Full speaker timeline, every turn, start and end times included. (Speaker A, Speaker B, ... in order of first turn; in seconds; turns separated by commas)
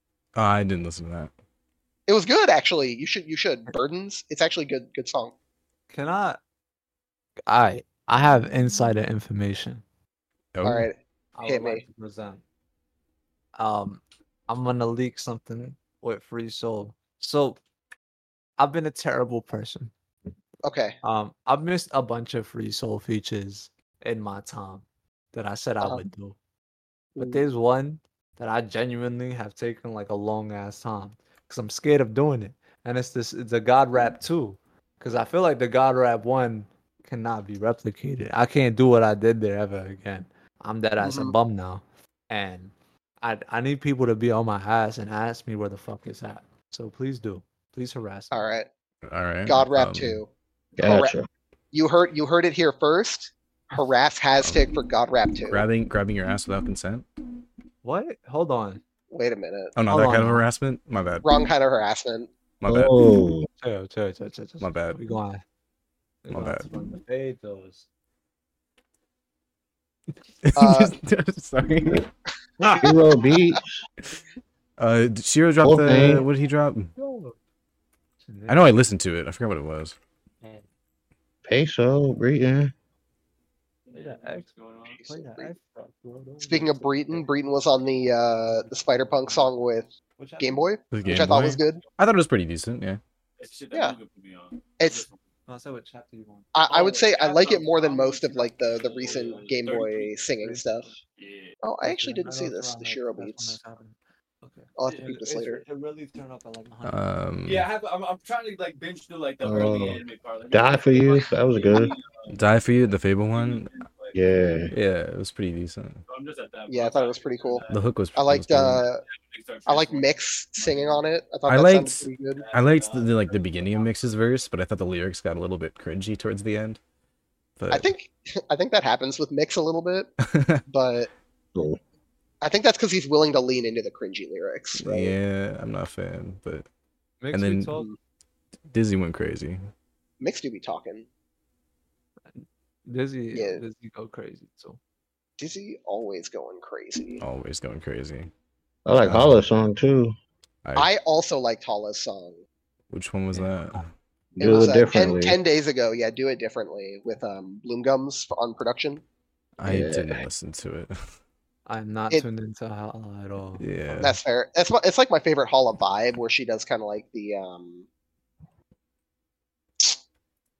Speaker A: 0.3-1.3, Speaker B: 2.1-5.3, Speaker C: 5.9-6.4, Speaker C: 7.5-9.8, Speaker A: 10.6-10.9, Speaker B: 10.6-11.8, Speaker C: 11.3-12.4, Speaker C: 13.6-17.6, Speaker C: 18.6-19.9, Speaker B: 20.6-21.0, Speaker C: 21.0-26.4, Speaker B: 27.2-27.4, Speaker C: 27.2-48.3, Speaker B: 41.0-41.3, Speaker B: 48.3-48.7, Speaker A: 49.1-50.2, Speaker B: 49.5-50.3, Speaker D: 50.8-51.3, Speaker B: 50.8-51.1, Speaker B: 51.7-55.6, Speaker A: 54.4-54.7, Speaker A: 55.5-57.1, Speaker C: 57.8-58.8, Speaker B: 59.1-59.8, Speaker A: 59.8-61.3, Speaker C: 59.9-60.5, Speaker B: 61.2-62.3, Speaker A: 62.6-63.0, Speaker D: 62.7-63.5, Speaker C: 63.6-65.4, Speaker A: 64.6-65.0, Speaker C: 66.2-67.9, Speaker A: 66.3-66.7, Speaker A: 70.4-72.1, Speaker B: 70.6-71.0, Speaker D: 72.8-73.8, Speaker A: 74.8-76.9, Speaker D: 75.6-76.2, Speaker C: 77.0-77.3, Speaker C: 78.2-78.7, Speaker A: 78.5-80.0, Speaker D: 81.5-82.7, Speaker E: 83.9-85.0, Speaker C: 83.9-87.3, Speaker B: 85.2-85.5, Speaker B: 86.5-89.9, Speaker C: 88.6-89.5, Speaker C: 90.2-90.6, Speaker B: 90.4-91.8, Speaker A: 90.9-93.0, Speaker E: 93.4-95.1, Speaker B: 94.8-95.1, Speaker C: 95.5-96.5, Speaker B: 96.5-100.9, Speaker E: 96.7-100.2, Speaker C: 100.4-101.0, Speaker E: 101.2-101.5, Speaker B: 101.6-103.6, Speaker C: 101.8-107.0, Speaker B: 104.8-105.6, Speaker A: 106.8-107.7, Speaker E: 107.5-112.3, Speaker D: 109.4-112.0, Speaker A: 112.3-113.7, Speaker E: 113.3-114.1, Speaker D: 114.1-114.7, Speaker A: 114.7-116.0, Speaker E: 116.1-117.8, Speaker B: 116.7-117.7, Speaker A: 117.7-118.8, Speaker B: 118.2-119.0, Speaker E: 119.2-121.0, Speaker B: 119.7-122.5, Speaker A: 121.5-126.8, Speaker E: 122.4-123.9, Speaker A: 127.6-127.9, Speaker B: 127.7-130.1, Speaker A: 130.2-130.6, Speaker B: 130.7-131.1, Speaker D: 131.6-131.8, Speaker B: 132.4-135.1, Speaker A: 134.8-136.7, Speaker C: 137.2-137.9, Speaker A: 137.3-137.8, Speaker B: 137.7-138.0, Speaker A: 138.7-139.6, Speaker B: 140.2-141.1, Speaker C: 142.3-144.8, Speaker B: 143.3-143.6, Speaker B: 145.4-147.2, Speaker A: 147.2-148.3, Speaker D: 148.9-150.2, Speaker A: 149.0-149.4, Speaker A: 150.7-150.9, Speaker B: 150.8-152.4, Speaker A: 152.9-153.9, Speaker D: 154.4-155.4, Speaker B: 154.4-159.0, Speaker A: 159.6-161.0, Speaker D: 159.7-160.2, Speaker C: 161.7-163.7, Speaker A: 163.6-164.2, Speaker B: 164.0-167.9